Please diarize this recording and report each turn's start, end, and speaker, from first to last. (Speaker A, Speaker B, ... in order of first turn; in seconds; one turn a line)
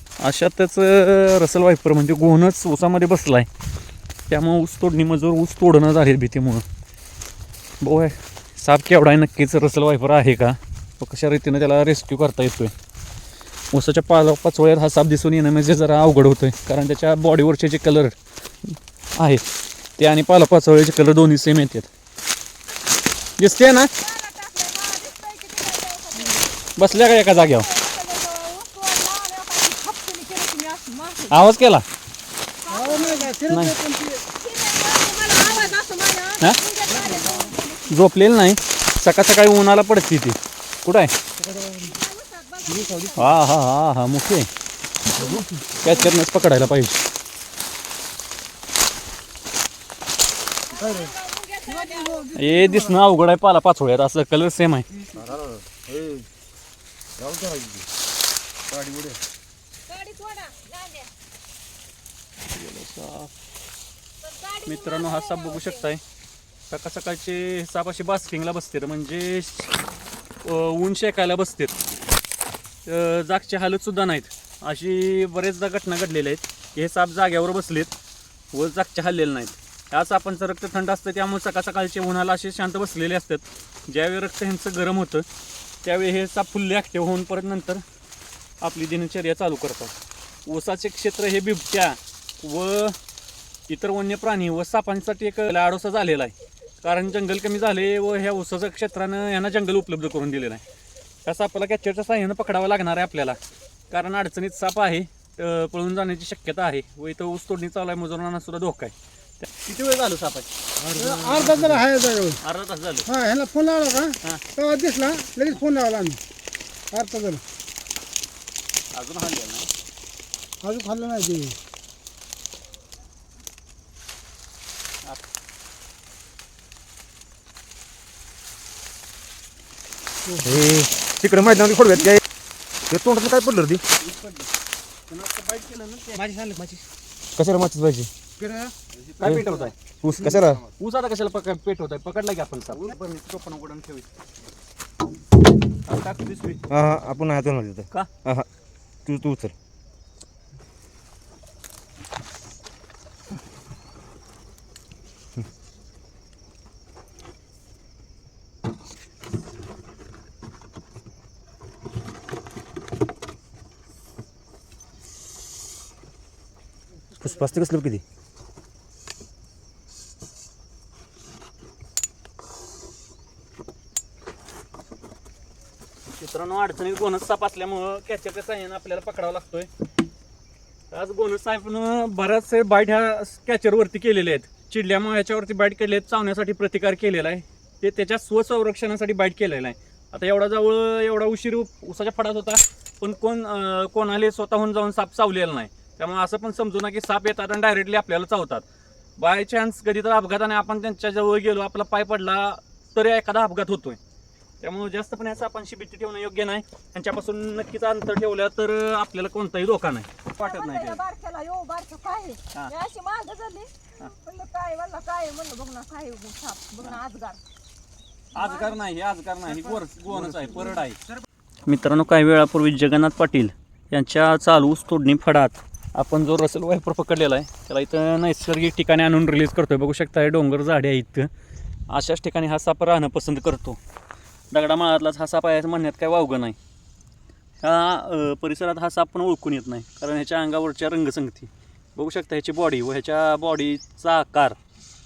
Speaker A: 0.2-3.5
Speaker A: 4.3-6.6
Speaker A: 7.8-12.7
Speaker A: 13.7-18.1
Speaker A: 18.7-19.4
Speaker A: 20.0-21.9
Speaker A: 23.4-23.9
Speaker B: 24.0-31.4
Speaker A: 26.8-27.7
Speaker A: 31.3-31.8
Speaker B: 32.6-33.3
Speaker C: 32.7-34.2
Speaker A: 33.5-33.8
Speaker B: 34.3-38.1
Speaker D: 37.0-37.5
Speaker A: 37.9-41.1
Speaker D: 41.4-41.9
Speaker B: 41.7-43.4
Speaker D: 42.7-43.2
Speaker A: 43.1-44.5
Speaker C: 45.1-45.6
Speaker A: 45.7-47.0
Speaker B: 50.7-52.4
Speaker D: 50.8-51.1
Speaker C: 51.7-52.9
Speaker A: 52.3-54.9
Speaker D: 55.1-56.3
Speaker D: 57.2-57.9
Speaker D: 58.7-59.2
Speaker B: 59.9-61.1
Speaker A: 62.5-63.3
Speaker B: 64.2-65.9
Speaker A: 64.7-66.0
Speaker A: 66.7-69.8
Speaker A: 70.4-71.8
Speaker A: 72.8-77.9
Speaker A: 78.5-85.2
Speaker A: 85.8-87.8
Speaker A: 88.6-89.9
Speaker A: 90.5-92.9
Speaker A: 93.7-100.6
Speaker A: 101.2-103.4
Speaker A: 103.9-111.8
Speaker C: 110.8-112.4
Speaker A: 112.4-113.1
Speaker C: 113.1-116.2
Speaker C: 116.9-117.4
Speaker A: 118.9-119.7
Speaker C: 120.6-121.6
Speaker D: 130.4-132.2
Speaker D: 132.9-133.8
Speaker A: 134.0-134.5
Speaker A: 135.1-136.3
Speaker C: 136.2-136.8
Speaker D: 137.3-138.1
Speaker C: 138.4-138.7
Speaker A: 139.2-144.1
Speaker D: 139.2-139.5
Speaker C: 139.2-139.7
Speaker D: 140.0-140.6
Speaker A: 145.8-146.6
Speaker D: 146.7-148.5
Speaker D: 149.1-149.5
Speaker D: 167.2-168.0
Speaker A: 176.1-179.7
Speaker A: 180.9-198.6
Speaker A: 199.2-204.0
Speaker A: 204.6-211.0
Speaker B: 210.4-217.4
Speaker B: 218.3-218.8
Speaker A: 218.3-221.0
Speaker A: 221.7-231.3
Speaker A: 231.9-233.8
Speaker A: 234.5-236.6
Speaker A: 237.6-244.6